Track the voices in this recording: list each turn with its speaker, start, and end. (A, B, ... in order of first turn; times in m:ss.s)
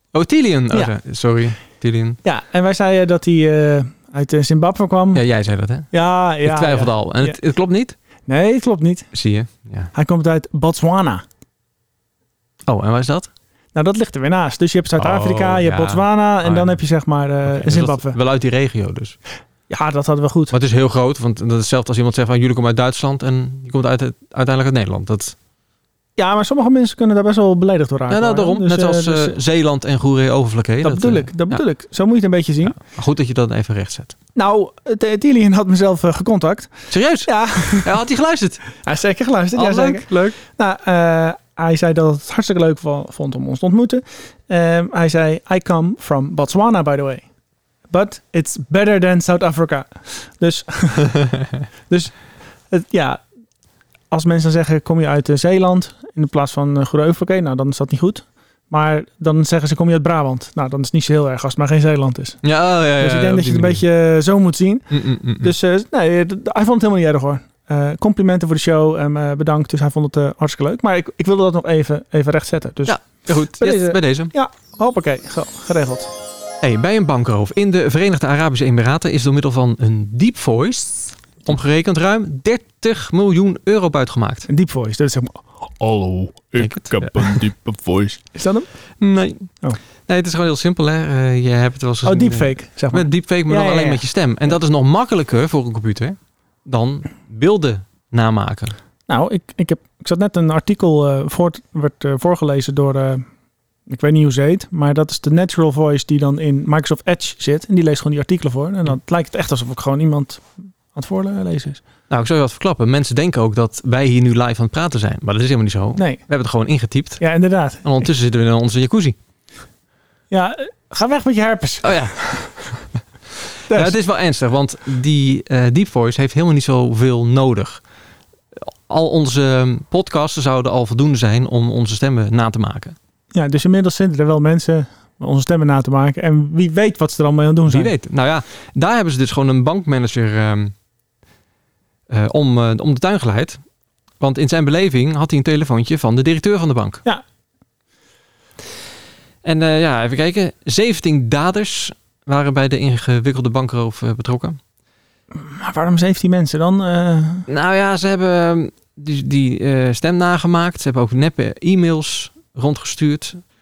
0:00.1-0:02.2 A
0:02.2-0:05.2 B
0:05.1-0:07.9 A
0:05.9-0:07.4 B
0:08.3-0:09.1 B
0:09.1-0:09.9 A
0:09.9-0:11.2 B
0:12.6-0:13.3 A
0:13.7-0:18.2 B
0:15.0-0:16.8 A
0:17.5-0:19.2 A
0:19.7-0:20.5 B
0:20.5-0:25.4 A
0:26.2-0:29.3 B
0:28.1-0:31.6 A
0:30.8-0:32.8 B
0:32.6-0:34.1 A
0:34.3-0:38.0 B
0:36.9-0:38.6 A
0:38.7-0:47.2 B
0:39.5-0:40.4 A
0:47.9-0:52.2 B
0:52.7-0:53.2 B
0:54.1-1:02.4 B
1:02.4-1:03.8 A
1:03.0-1:16.1 B
1:04.9-1:05.5 A
1:12.8-1:14.3 A
1:16.6-1:24.5 A
1:24.5-1:25.4 B
1:25.8-1:28.2 C
1:26.6-1:27.4 A
1:28.3-1:28.7 B
1:29.0-1:29.5 A
1:30.1-1:38.8 A
1:32.0-1:34.0 B
1:39.1-1:43.2 B
1:43.9-1:51.8 B
1:52.1-1:57.2 A
1:56.0-1:56.2 B
1:57.2-1:58.0 B
1:57.8-1:59.2 A
2:00.3-2:02.5 B
2:01.8-2:02.7 A
2:03.7-2:04.0 B
2:03.7-2:07.8 A
2:08.6-2:13.0 A
2:13.3-2:17.9 B
2:17.7-2:20.7 A
2:22.1-2:23.6 A
2:24.2-2:27.0 A
2:29.4-2:34.6 A
2:35.3-2:37.4 B
2:37.5-2:43.4 A